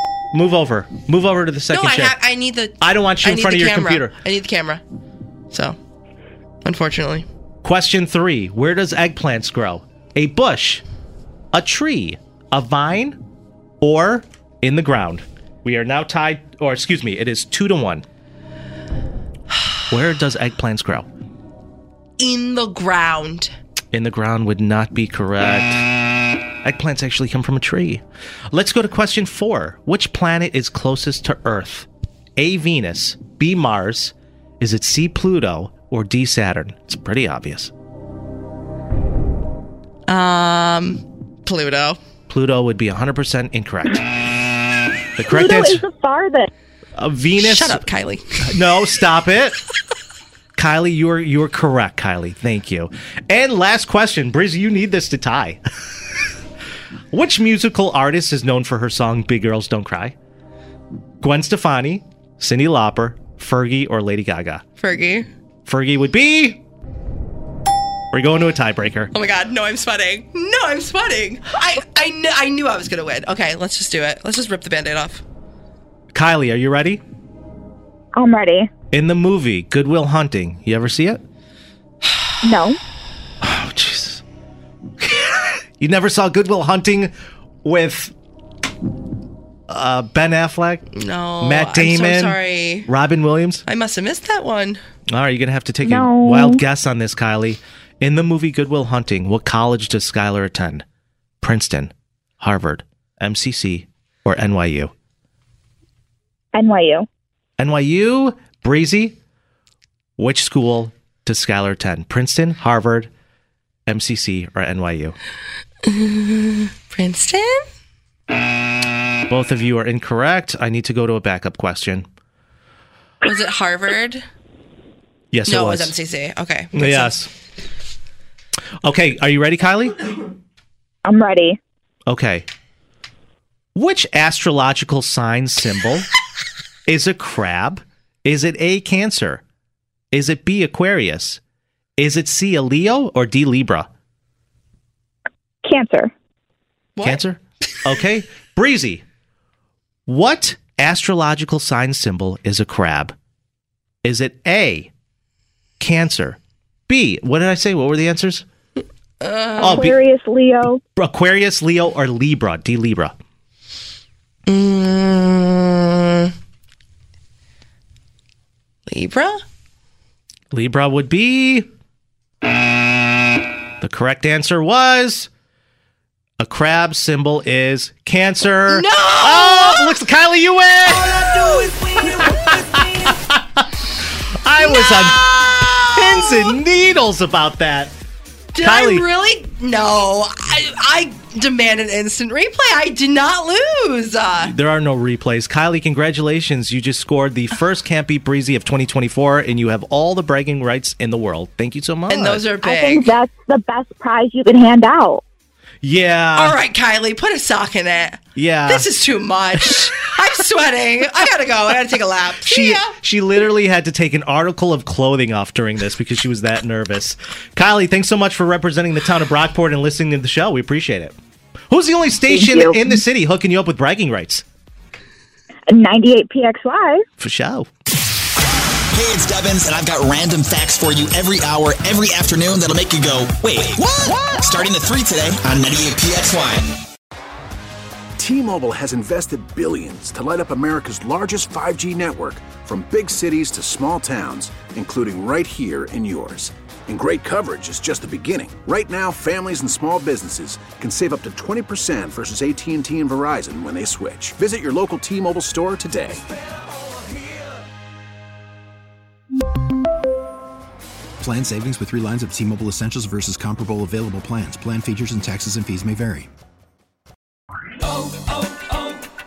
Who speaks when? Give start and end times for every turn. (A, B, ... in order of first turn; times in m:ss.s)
0:00.3-0:02.2 A
0:01.7-0:04.8 B
0:02.8-0:04.2 A
0:05.5-0:05.8 B
0:06.6-0:07.3 B
0:07.6-0:10.8 A
0:11.5-0:13.2 A
0:13.8-0:18.0 A
0:19.9-0:21.1 A
0:22.2-0:23.5 B
0:23.9-0:37.7 A
0:40.1-0:42.0 B
0:42.3-0:44.0 A
0:45.2-0:45.8 A
0:45.3-0:46.5 C
0:47.0-0:47.8 A
0:47.4-0:48.5 B
0:48.4-0:49.6 A
0:50.6-0:55.6 A
0:57.1-1:00.2 A
1:01.2-1:04.6 A
1:04.8-1:05.3 B
1:05.7-1:06.6 A
1:08.1-1:09.1 A
1:09.1-1:15.2 B
1:16.1-1:17.0 A
1:18.1-1:18.7 C
1:18.9-1:21.2 A
1:22.4-1:22.8 C
1:23.4-1:24.2 A
1:25.0-1:27.1 A
1:27.6-1:28.1 A
1:29.7-1:30.8 A
1:30.9-1:32.9 B
1:31.4-1:33.6 A
1:33.7-1:34.8 B
1:35.1-1:40.8 A
1:35.8-1:36.6 C
1:41.4-1:44.9 A
1:46.5-1:47.1 C
1:47.6-1:49.2 A
1:50.2-1:53.1 A
1:53.9-1:55.2 A
1:55.9-1:57.7 B
1:59.3-2:02.0 A
2:03.2-2:04.2 B
2:05.3-2:06.0 A
2:05.5-2:07.2 B
2:06.7-2:07.3 A
2:08.8-2:10.0 A
2:11.0-2:11.6 C
2:12.1-2:12.5 A
2:13.8-2:16.1 A
2:16.9-2:19.4 A
2:20.1-2:21.4 A
2:22.0-2:23.9 A
2:25.6-2:26.1 C
2:27.0-2:27.2 B
2:27.0-2:29.0 A
2:30.1-2:33.1 A
2:34.0-2:34.9 A
2:35.8-2:38.4 A
2:39.2-2:39.8 B
2:39.6-2:40.0 A
2:39.6-2:40.8 C
2:41.0-2:43.2 A
2:44.5-2:46.3 B
2:48.9-2:49.4 B
2:50.5-2:51.7 A
2:53.8-2:55.3 A
2:56.4-3:03.7 A
2:58.7-3:00.0 B
3:00.9-3:03.2 B
3:04.3-3:08.0 A
3:04.6-3:06.6 B
3:08.6-3:14.5 B
3:08.6-3:09.1 A
3:14.4-3:22.5 A
3:22.1-3:23.2 B
3:22.6-3:25.2 C
3:25.8-3:26.6 A
3:26.4-3:32.9 B
3:28.4-3:28.9 A
3:32.4-3:41.2 A
3:41.7-3:44.4 A
3:42.3-3:43.0 C
3:45.7-3:47.0 C
3:47.2-3:47.7 A
3:48.9-3:56.8 D
3:58.2-4:16.2 E
4:21.2-4:26.3 F